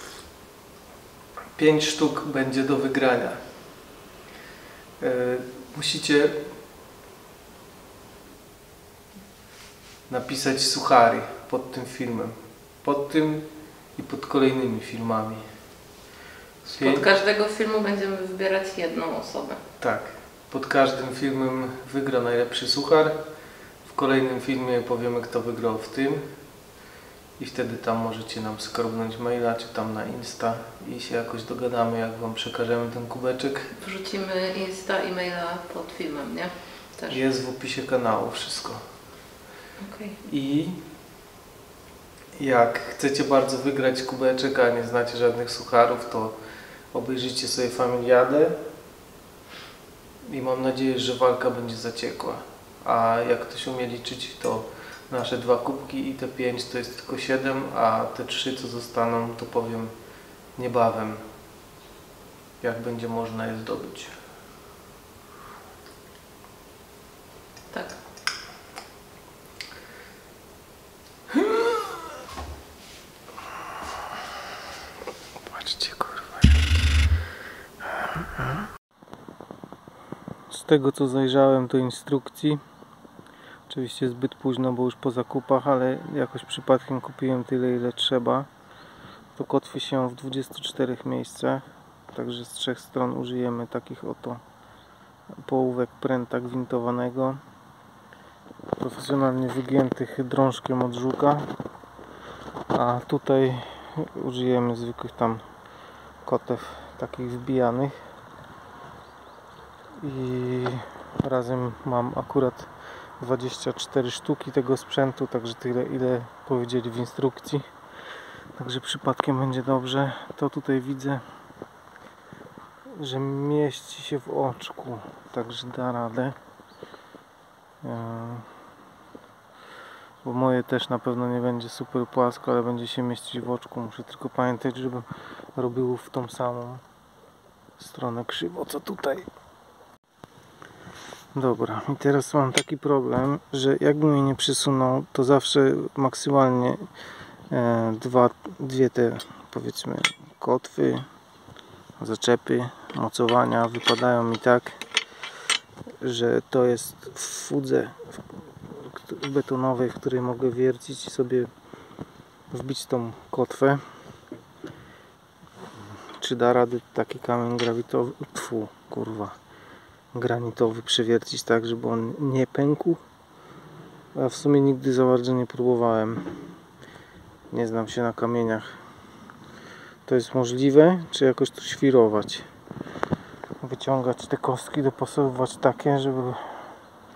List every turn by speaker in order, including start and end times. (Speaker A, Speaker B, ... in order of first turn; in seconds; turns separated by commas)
Speaker A: 1.6-3.4, Speaker A: 5.0-6.5, Speaker A: 10.1-15.5, Speaker B: 16.6-19.6, Speaker A: 16.8-17.1, Speaker A: 19.8-23.2, Speaker A: 23.8-26.2, Speaker A: 27.4-33.7, Speaker B: 33.8-37.2, Speaker A: 37.1-38.8, Speaker B: 39.8-40.2, Speaker A: 40.2-40.8, Speaker A: 42.4-46.4, Speaker A: 46.9-48.6, Speaker A: 50.3-59.9, Speaker A: 60.6-61.2, Speaker A: 62.6-64.1, Speaker B: 67.7-68.0, Speaker A: 75.5-76.6, Speaker A: 78.0-78.6, Speaker A: 80.5-82.6, Speaker A: 83.7-88.5, Speaker A: 89.3-94.4, Speaker A: 95.4-97.4, Speaker A: 98.8-101.6, Speaker A: 102.7-105.4, Speaker A: 106.2-108.0, Speaker A: 110.0-117.7, Speaker A: 118.6-121.2, Speaker A: 122.9-126.4, Speaker A: 127.8-128.5, Speaker A: 130.2-136.8, Speaker A: 137.8-139.3, Speaker A: 141.3-146.8, Speaker A: 147.5-151.1, Speaker A: 152.0-154.8, Speaker A: 156.0-161.5, Speaker A: 162.5-163.8, Speaker A: 166.2-169.4, Speaker A: 170.1-173.0, Speaker A: 174.2-176.4, Speaker A: 177.5-178.8, Speaker A: 180.1-182.5, Speaker A: 183.6-186.6